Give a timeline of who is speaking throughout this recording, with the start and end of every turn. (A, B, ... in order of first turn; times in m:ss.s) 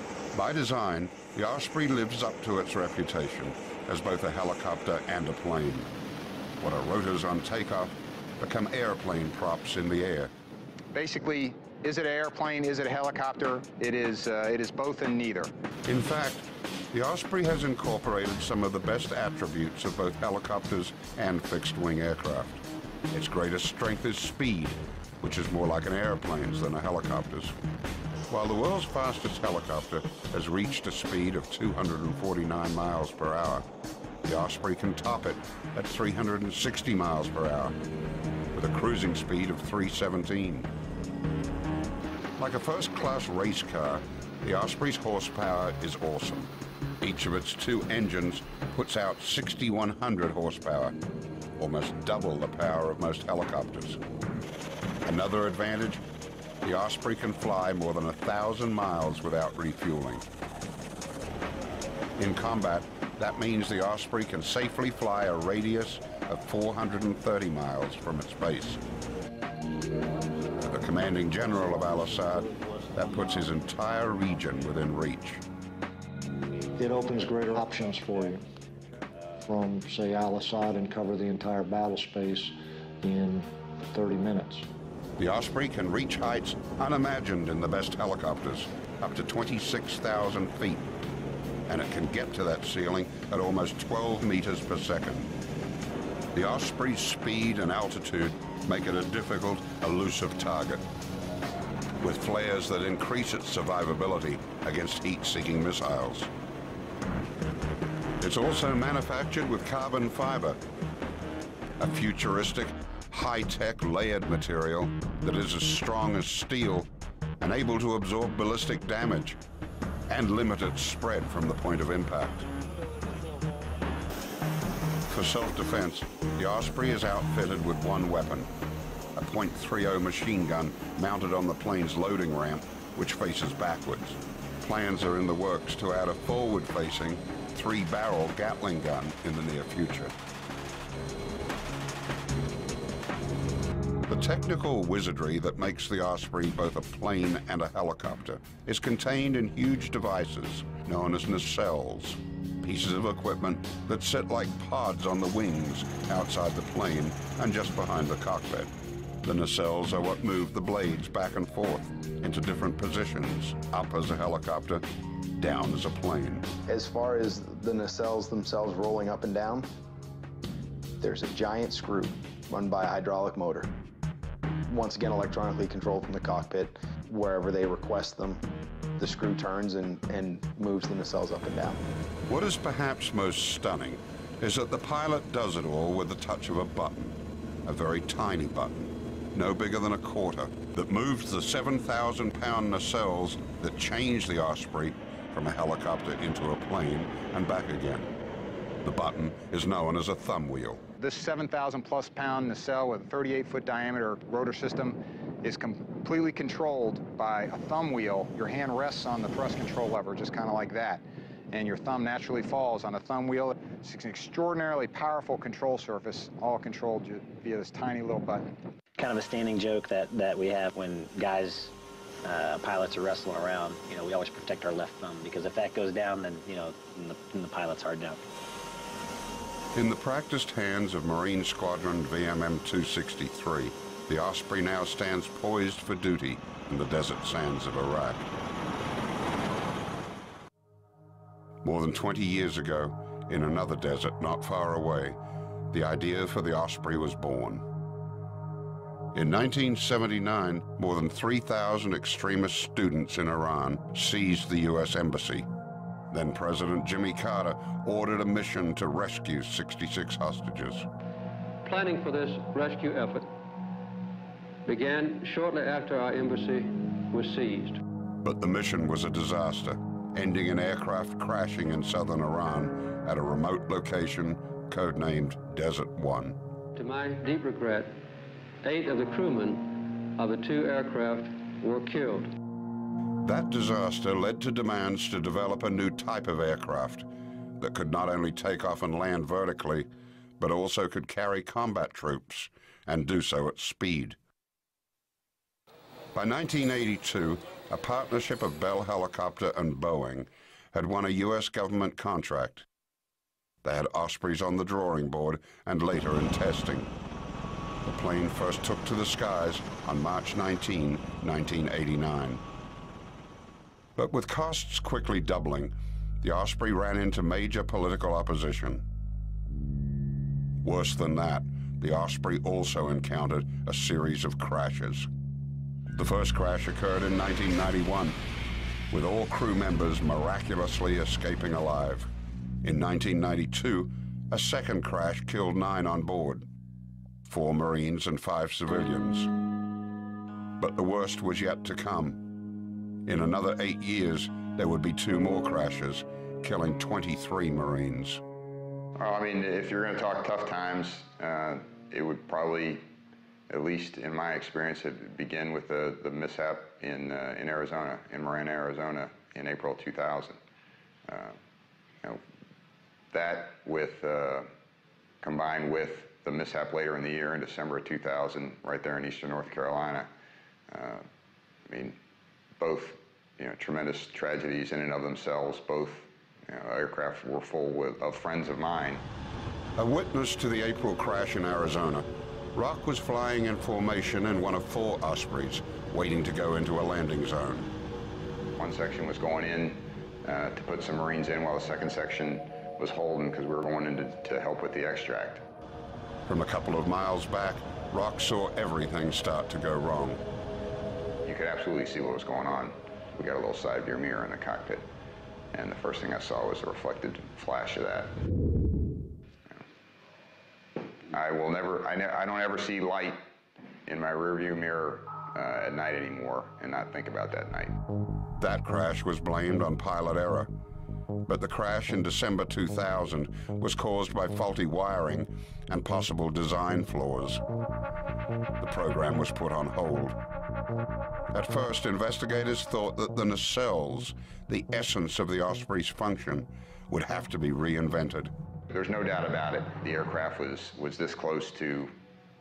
0:00.3-0:05.9 A
0:06.6-0:10.3 A
0:10.9-0:15.5 B
0:15.8-0:27.6 A
0:28.3-0:33.7 A
0:34.2-0:37.8 A
0:38.5-0:40.7 A
0:42.4-0:51.0 A
0:51.6-0:54.0 A
0:55.0-0:56.0 A
0:56.6-1:00.3 A
1:02.2-1:08.8 A
1:10.6-1:15.4 A
1:16.8-1:18.4 C
1:19.4-1:24.7 C
1:25.2-1:30.9 A
1:31.7-1:35.3 A
1:36.3-1:40.8 A
1:42.0-1:46.3 A
1:48.2-1:50.6 A
1:51.8-1:56.9 A
1:57.4-1:59.4 A
2:00.1-2:02.5 A
2:05.1-2:08.5 A
2:09.2-2:20.2 A
2:24.1-2:38.7 A
2:39.2-2:44.8 A
2:45.4-2:46.5 A
2:46.7-2:49.7 D
2:51.0-2:53.7 D
2:54.7-2:58.4 D
2:59.0-3:01.8 D
3:02.3-3:18.2 A
3:18.8-3:20.8 A
3:21.0-3:38.5 B
3:39.0-3:41.7 E
3:42.2-3:48.2 E
3:49.7-3:58.3 A
4:01.6-4:05.2 A
4:05.7-4:07.7 A
4:09.1-4:15.5 A
4:16.1-4:20.9 A
4:21.6-4:23.3 F
4:24.7-4:27.8 F
4:28.2-4:36.4 A
4:36.8-4:38.0 F
4:38.6-4:42.3 F
4:43.2-4:54.2 A
4:56.1-5:02.7 A
5:03.6-5:06.9 A
5:07.8-5:12.4 A
5:14.0-5:18.8 A
5:20.6-5:25.1 A
5:26.0-5:28.2 A
5:28.9-5:32.1 A
5:32.6-5:36.5 A
5:37.3-5:39.3 A
5:40.6-5:42.2 A
5:43.1-5:48.2 A
5:49.0-5:52.8 G
5:53.5-6:00.4 G
6:01.1-6:01.4 G
6:03.1-6:04.5 G
6:05.2-6:10.1 G
6:10.7-6:11.0 G
6:11.7-6:12.0 G
6:12.6-6:19.0 G
6:19.8-6:27.7 A
6:28.6-6:35.4 G
6:36.3-6:40.2 A
6:41.2-6:44.9 G
6:45.5-6:48.2 G
6:51.1-6:53.2 G
6:53.9-6:57.8 G
6:58.4-7:00.5 A
7:01.3-7:07.4 A
7:08.6-7:10.2 A
7:11.3-7:18.3 A
7:18.7-7:21.9 G